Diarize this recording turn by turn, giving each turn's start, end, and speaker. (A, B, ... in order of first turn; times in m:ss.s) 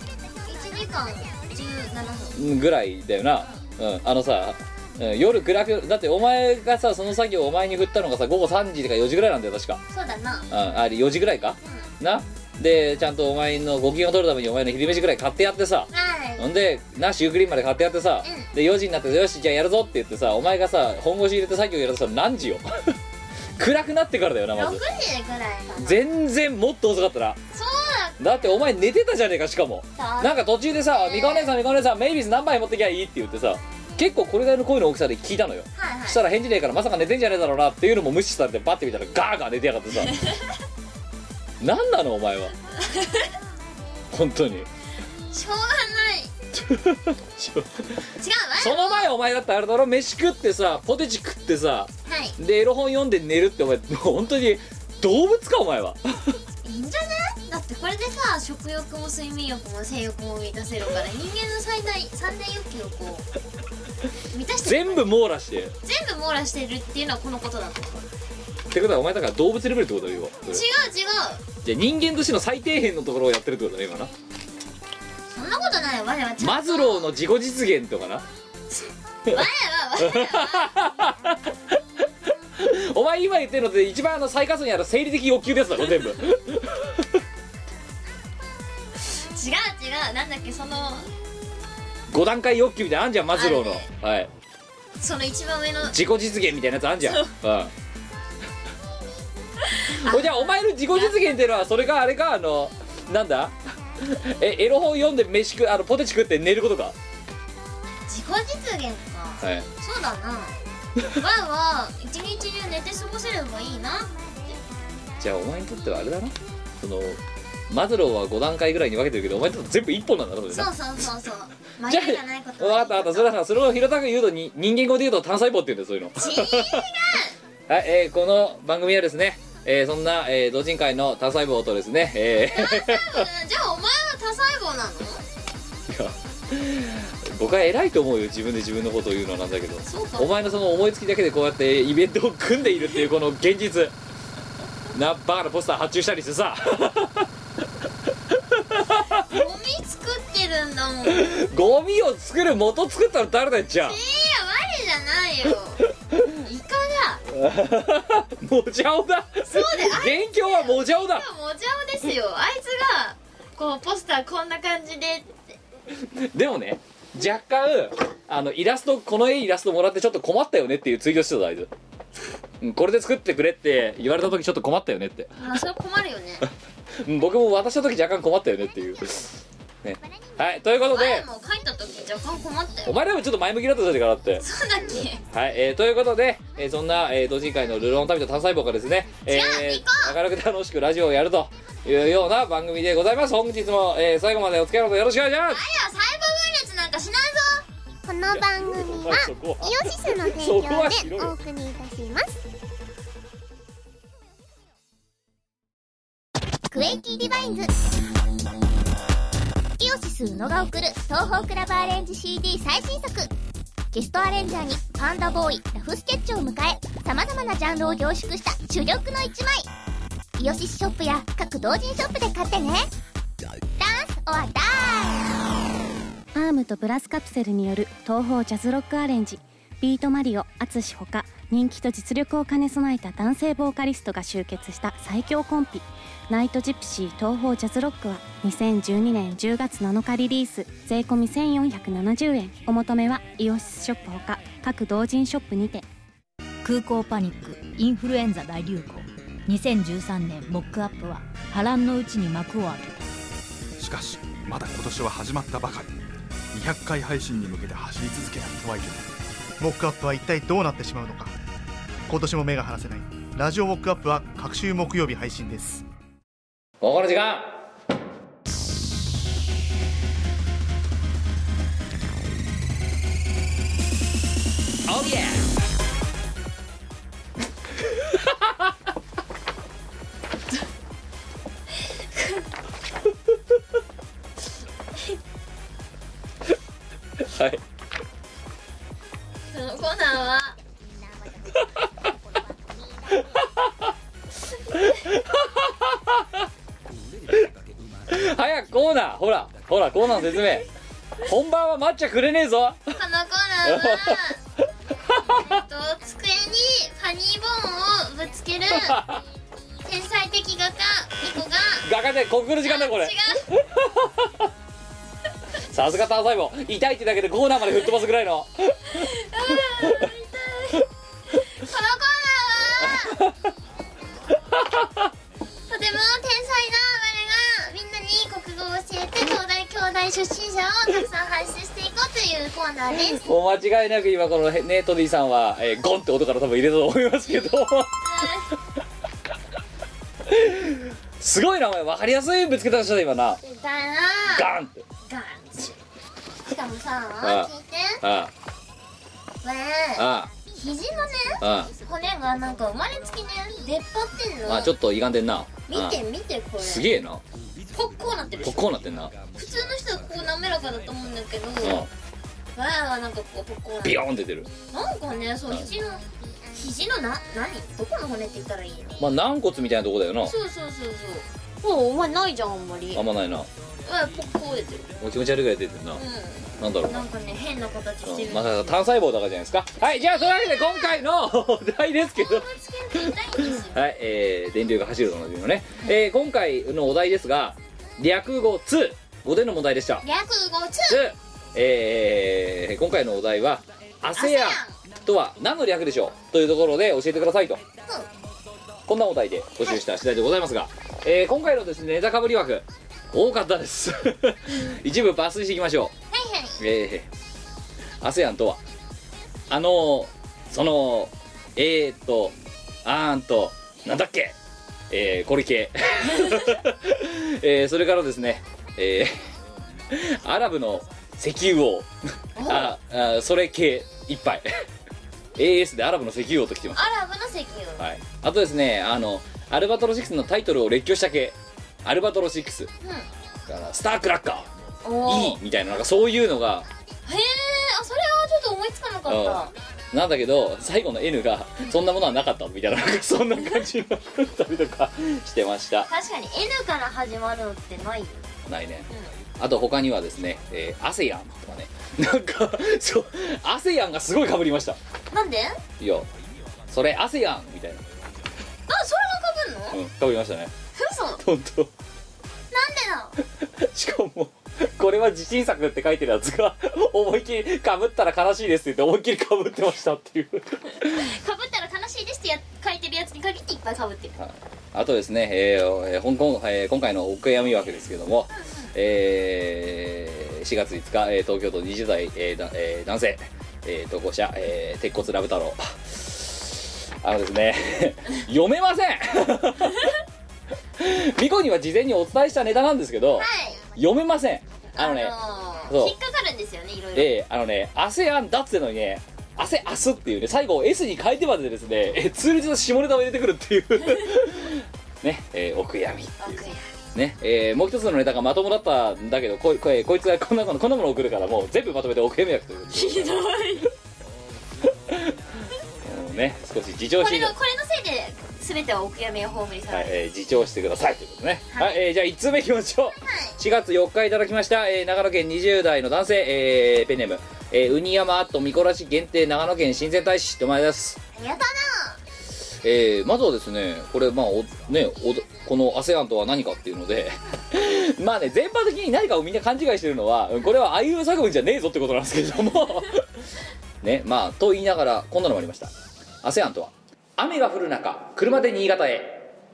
0:00.4-0:02.4 A
0:02.4-0:09.8 B
0:09.9-0:10.5 A
0:10.5-0:23.0 B
0:11.6-0:11.9 A
0:15.9-0:16.5 A
0:23.6-0:24.8 B
0:24.6-0:26.0 A
0:25.8-0:27.4 B
0:27.5-0:28.5 A
0:28.2-0:40.2 B
0:30.0-0:31.5 A
0:35.8-0:36.2 A
0:40.1-0:40.4 A
0:41.6-0:42.5 B
0:42.8-0:43.3 A
0:44.1-0:44.7 B
0:45.3-0:46.3 A
0:46.6-0:47.9 B
0:48.2-0:49.1 A
0:48.6-0:56.4 B
0:52.1-0:52.4 A
0:56.6-1:03.3 A
1:04.3-1:05.1 A
1:04.7-1:05.8 B
1:05.8-1:08.1 A
1:08.7-1:10.6 B
1:10.5-1:11.4 A
1:11.6-1:14.1 B
1:15.3-1:17.1 A
1:16.4-1:18.2 B
1:18.7-1:20.7 A
1:20.0-1:21.8 B
1:22.6-1:27.2 B
1:29.1-1:31.1 A
1:32.1-1:34.3 B
1:33.3-1:33.9 A
1:35.0-1:36.0 A
1:35.9-1:37.7 B
1:37.0-1:37.3 A
1:39.6-1:41.5 A
1:40.0-1:47.0 B
1:48.1-1:50.6 A
1:49.4-1:49.7 B
1:51.1-1:54.6 A
1:55.2-2:00.7 B
2:00.5-2:03.3 A
2:01.9-2:06.9 B
2:06.2-2:07.3 A
2:07.7-2:13.3 B
2:12.5-2:15.2 A
2:15.9-2:23.9 B
2:19.8-2:20.3 A
2:24.9-2:27.3 B
2:28.5-2:29.4 B
2:29.2-2:31.3 A
2:31.1-2:34.0 B
2:33.8-2:35.8 A
2:36.4-2:37.2 A
2:37.3-2:41.3 B
2:39.5-2:45.6 A
2:46.2-2:51.7 B
2:52.6-2:55.6 B
2:55.4-2:56.4 A
2:57.0-3:01.3 B
3:00.9-3:02.9 A
3:02.9-3:04.4 B
3:04.4-3:05.2 A
3:05.3-3:15.6 B
3:09.3-3:10.1 A
3:15.5-3:17.7 A
3:18.0-3:22.4 C
3:18.3-3:21.4 B
3:26.7-3:27.7 C
3:29.8-3:33.3 C
3:33.9-3:39.7 C
3:40.4-3:42.9 C
3:43.8-3:45.5 C
3:46.4-4:05.8 D
4:06.6-4:13.1 E
4:13.8-4:15.9 F
4:16.5-4:19.1 F
4:19.6-4:21.3 G
4:22.1-4:25.8 G
4:26.8-4:27.7 B
4:34.9-4:35.4 B
4:38.1-4:38.7 B
4:47.2-4:47.6 B
4:49.5-4:50.6 A
4:53.2-4:53.7 B
4:54.7-4:56.4 B
4:58.1-5:00.7 B
5:01.2-5:02.9 B
5:03.0-5:04.4 A
5:03.7-5:04.3 B
5:05.1-5:05.6 B
5:05.3-5:09.0 A
5:08.7-5:09.2 B
5:09.8-5:11.9 A
5:11.8-5:14.5 B
5:12.6-5:13.5 A
5:15.7-5:20.1 B
5:19.0-5:23.2 A
5:22.8-5:23.5 B
5:24.5-5:25.1 B
5:25.7-5:33.2 A
5:32.9-5:38.3 B
5:38.0-5:38.5 A
5:40.3-5:43.4 B
5:43.4-5:44.5 A
5:44.3-5:44.8 B
5:45.1-5:45.8 A
5:46.4-5:48.0 A
5:47.2-5:47.5 B
5:48.0-5:48.3 B
5:49.4-5:54.7 A
5:50.0-5:50.3 B
5:51.4-5:51.7 B
5:54.5-5:56.0 B
5:55.7-5:56.9 A
5:56.6-5:57.2 B
5:57.7-6:01.9 A
5:58.4-5:59.2 B
6:01.6-6:01.9 B
6:02.6-6:04.0 A
6:03.8-6:04.5 B
6:04.7-6:09.1 A
6:09.0-6:10.3 B
6:10.2-6:13.0 A
6:12.9-6:13.5 B
6:13.8-6:14.9 A
6:15.0-6:16.0 B
6:16.0-6:18.7 A
6:16.6-6:17.0 B
6:18.0-6:22.5 B
6:20.0-6:21.0 A
6:22.1-6:23.8 A
6:23.6-6:30.0 B
6:30.0-6:31.1 A
6:30.9-6:37.6 B
6:34.2-6:34.7 A
6:38.9-6:45.9 B
6:46.1-6:46.6 A
6:46.6-6:47.1 B
6:48.0-6:48.6 B
6:49.5-6:54.4 B
6:54.9-6:59.2 B
6:56.1-6:56.5 A
6:59.9-7:01.9 B
7:02.4-7:02.8 A
7:02.4-7:04.5 B
7:05.4-7:06.8 B
7:06.8-7:07.8 A
7:07.8-7:12.7 B
7:12.8-7:13.1 A
7:13.5-7:14.5 B
7:14.8-7:15.4 A
7:15.0-7:16.7 B
7:17.1-7:19.5 A
7:19.1-7:25.9 B
7:25.9-7:28.3 A
7:28.5-7:28.9 B
7:29.4-7:34.8 B
7:35.1-7:35.6 A
7:35.8-7:36.1 B
7:36.7-7:37.8 B
7:38.7-7:39.8 A
7:39.7-7:40.5 B
7:40.8-7:41.2 A
7:41.2-7:41.7 B
7:42.5-7:43.2 A
7:43.6-7:51.1 B
7:50.8-7:54.2 A
7:54.2-8:09.9 B
7:58.3-7:58.7 A
8:10.8-8:15.1 B
8:13.2-8:13.6 A
8:14.8-8:17.2 A
8:15.7-8:16.0 B
8:17.0-8:26.4 B
8:26.2-8:26.6 A
8:27.0-8:33.3 B
8:32.7-8:33.7 A
8:34.6-8:35.2 B
8:35.8-8:37.4 B
8:37.0-8:40.0 A
8:39.7-8:51.0 B
8:41.5-8:41.8 A
8:43.0-8:43.4 A
8:51.2-8:52.0 A
8:52.6-9:03.0 B
9:03.8-9:05.7 B
9:06.2-9:09.3 B